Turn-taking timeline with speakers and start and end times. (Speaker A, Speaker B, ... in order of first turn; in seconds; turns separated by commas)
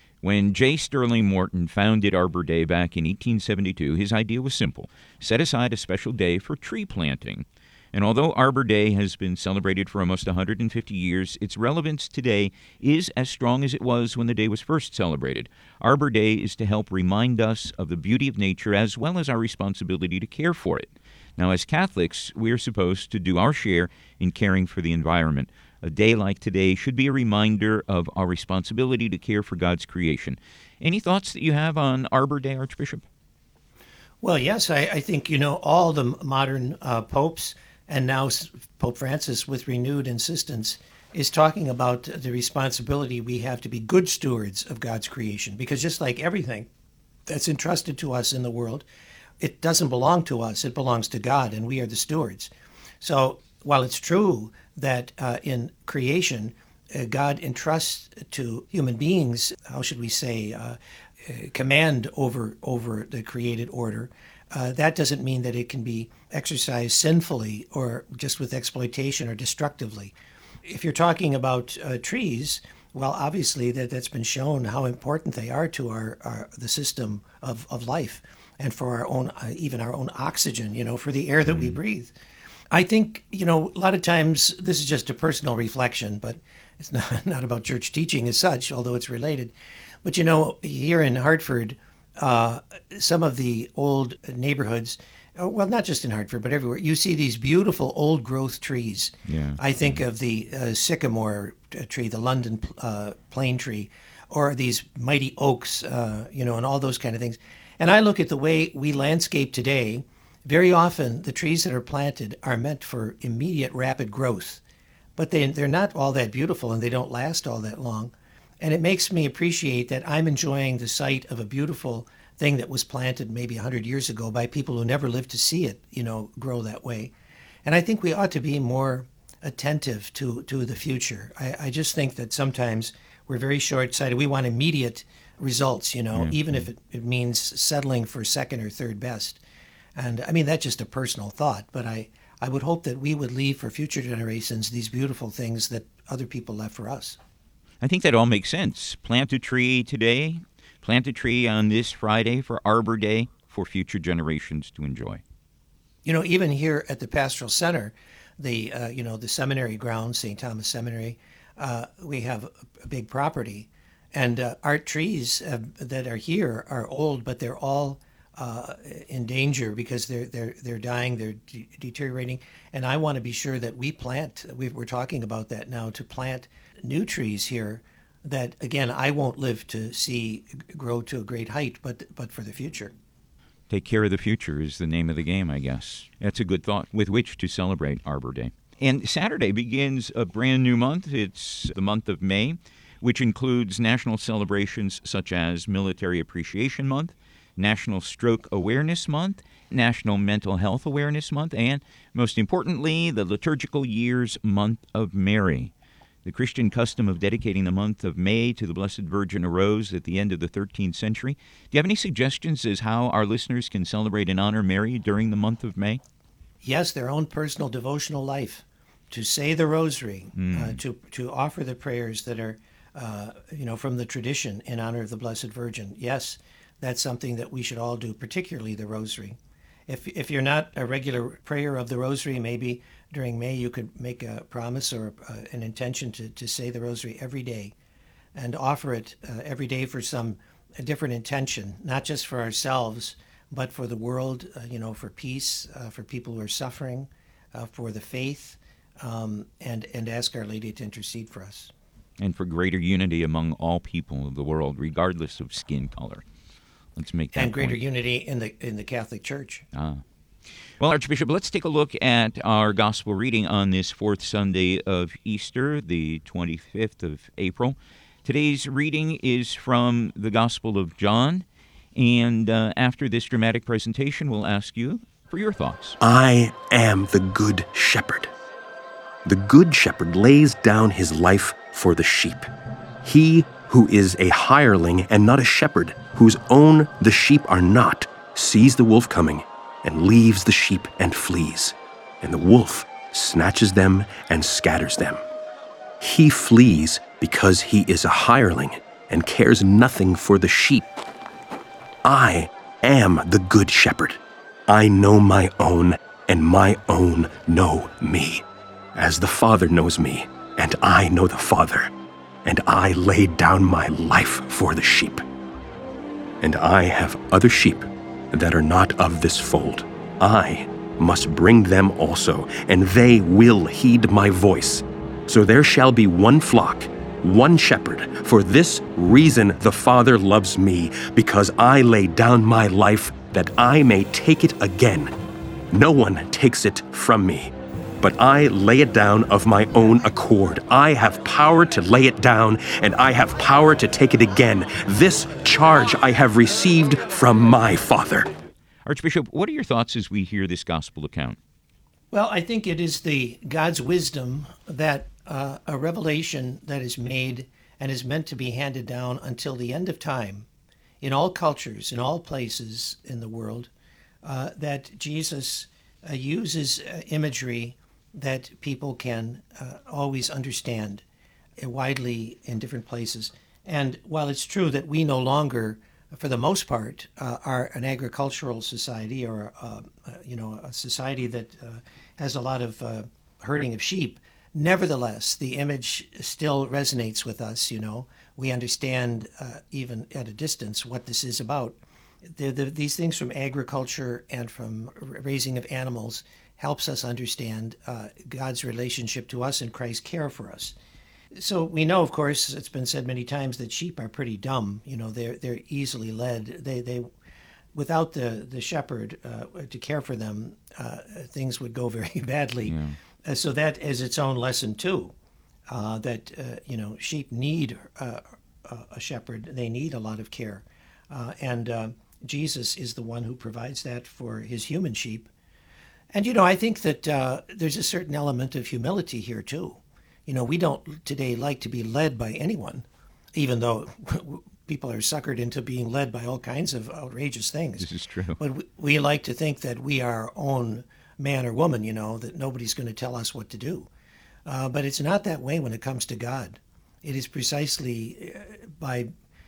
Speaker A: 0.2-33.0, Speaker B: 34.2-46.7, Speaker B: 47.3-48.8, Speaker B: 49.4-52.5, Speaker B: 53.0-70.1, Speaker B: 70.7-82.1, Speaker B: 82.7-89.5, Speaker B: 90.0-114.6, Speaker A: 99.3-100.0, Speaker B: 115.2-127.1, Speaker B: 127.7-139.4, Speaker A: 136.1-136.6, Speaker B: 139.9-147.2, Speaker A: 147.8-155.2, Speaker B: 156.0-182.9, Speaker A: 183.7-205.7, Speaker A: 206.2-216.0, Speaker B: 216.6-237.7, Speaker A: 220.3-220.8, Speaker B: 238.3-251.7, Speaker A: 252.2-256.2, Speaker A: 256.9-257.8, Speaker B: 257.3-259.6, Speaker A: 259.7-260.0, Speaker A: 260.8-276.0, Speaker C: 276.0-278.3, Speaker C: 279.2-282.5, Speaker C: 283.0-295.2, Speaker C: 296.0-300.8, Speaker C: 302.0-308.4, Speaker C: 308.9-311.9, Speaker C: 312.4-315.2, Speaker C: 316.4-335.1, Speaker C: 335.7-348.3, Speaker A: 348.9-351.4, Speaker B: 352.1-360.5, Speaker B: 361.0-363.7, Speaker B: 364.2-371.0, Speaker B: 371.6-400.7, Speaker B: 401.3-407.1, Speaker B: 407.7-415.1, Speaker A: 412.6-413.0, Speaker B: 415.7-425.3, Speaker B: 426.1-443.9, Speaker A: 437.8-438.4, Speaker B: 444.4-449.1